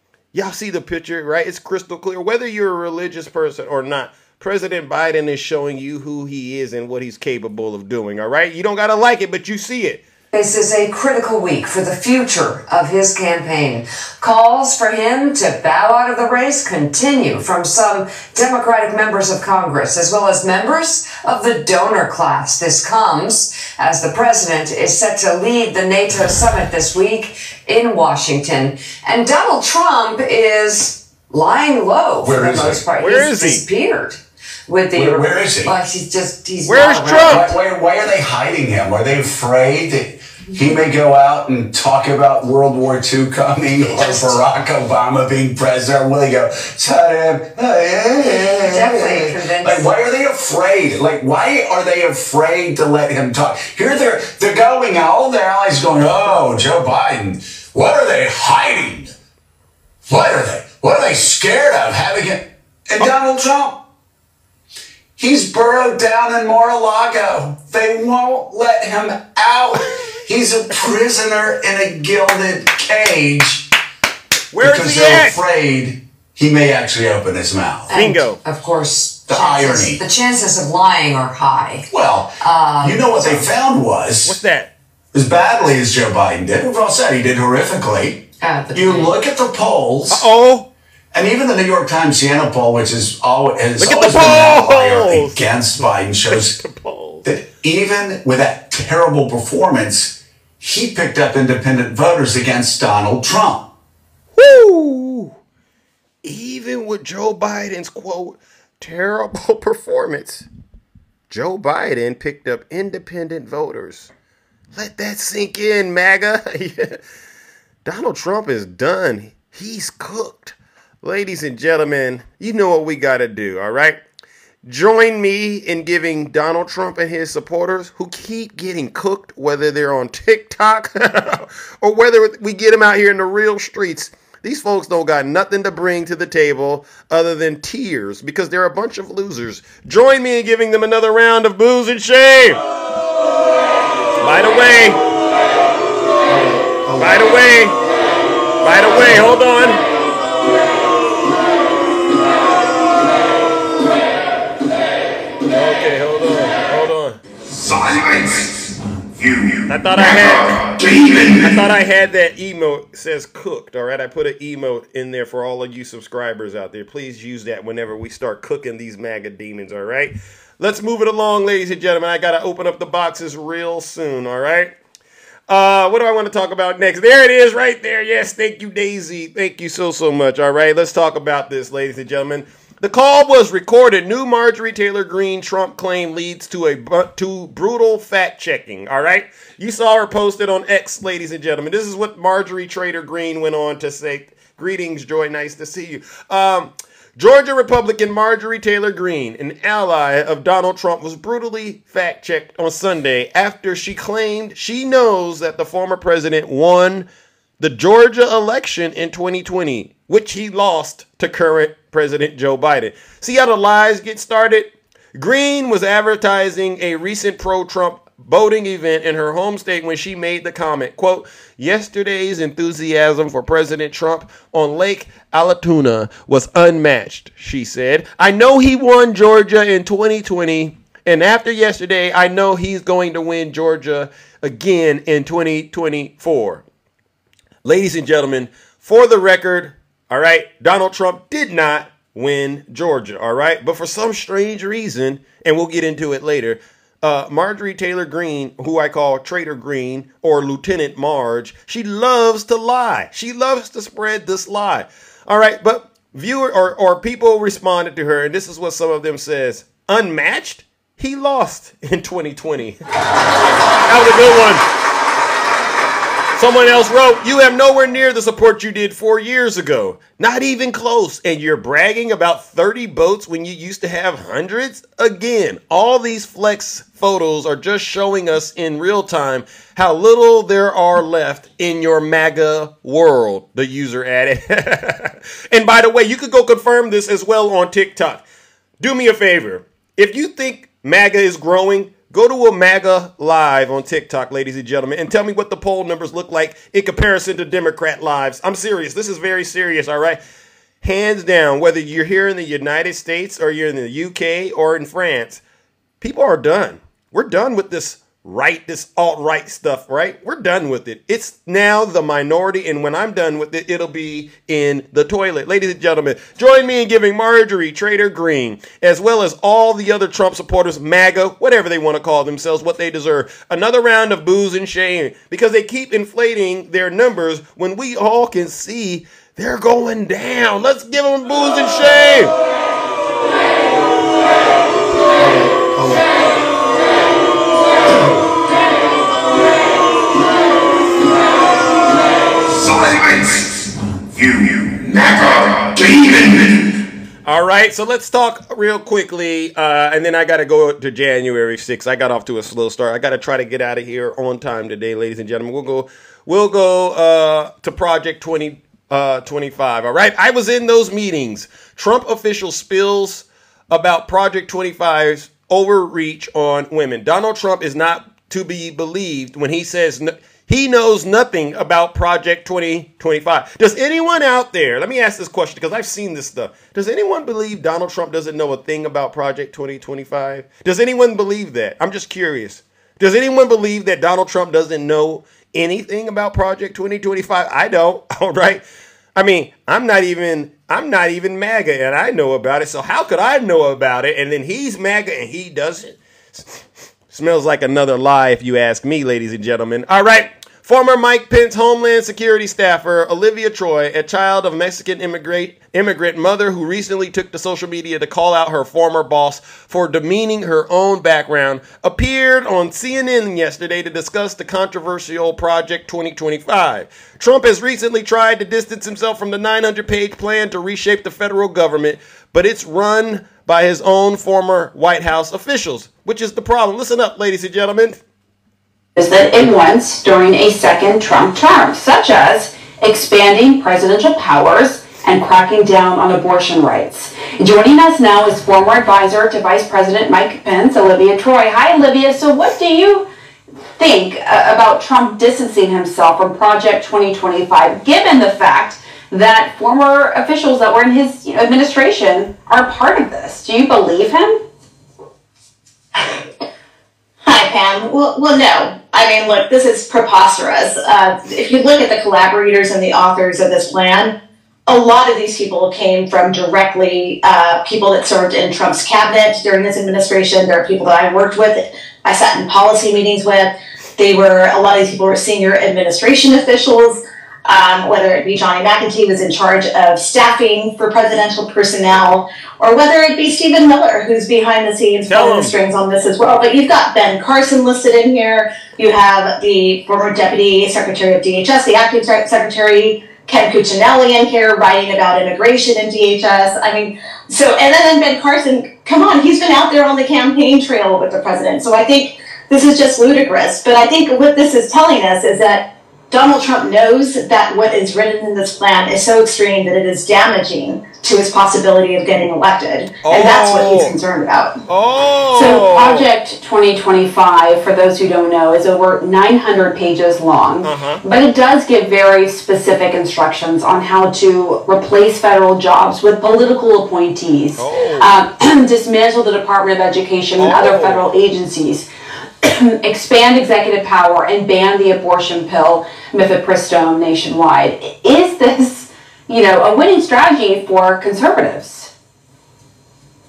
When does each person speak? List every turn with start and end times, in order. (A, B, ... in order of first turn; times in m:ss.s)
0:00.3-0:10.0 A
0:10.3-0:37.6 B
0:32.2-0:32.8 C
0:33.0-0:33.6 A
0:34.9-0:35.8 C
0:36.6-0:37.5 A
0:37.2-0:59.1 C
0:43.9-0:44.4 B
0:48.5-0:49.9 B
1:00.0-1:03.8 C
1:05.2-1:13.7 C
1:14.5-1:15.4 A
1:14.6-1:17.9 C
1:17.9-1:21.9 B
1:17.9-1:18.4 A
1:19.3-1:20.0 C
1:21.9-1:24.4 C
1:22.4-1:23.4 B
1:24.2-1:24.7 A
1:25.1-1:30.2 C
1:28.4-1:29.1 B
1:30.1-1:30.7 A
1:31.1-1:36.6 C
1:33.8-1:37.3 A
1:37.2-1:43.7 C
1:44.3-1:45.4 A
1:46.2-1:50.5 A
1:51.3-1:54.1 A
1:54.7-1:57.0 A
1:57.8-2:04.0 A
2:04.6-2:22.6 A
2:24.2-2:25.0 A
2:27.0-2:27.7 A
2:28.6-2:29.8 A
2:35.5-2:37.2 A
2:37.5-2:41.7 D
2:39.7-2:40.6 A
2:41.4-2:54.7 A
2:55.5-3:27.1 A
3:27.6-3:56.6 A
3:57.6-4:22.8 A
4:23.9-4:24.6 A
4:26.4-4:48.2 A
4:48.8-5:00.2 A
5:00.8-5:05.4 A
5:06.0-5:32.3 A
5:42.5-5:46.8 D
5:47.2-6:28.6 A
6:29.2-6:36.6 A
6:37.1-7:08.0 A
7:09.0-7:23.0 E
7:23.8-7:34.4 E
7:37.2-7:44.1 F
7:44.7-8:34.5 F
8:05.1-8:05.6 A
8:33.0-8:34.0 A
8:34.7-8:36.1 A
8:35.3-8:51.9 E
8:40.6-8:41.0 A
8:47.6-8:48.1 A
8:50.4-8:51.1 A
8:52.4-9:01.9 E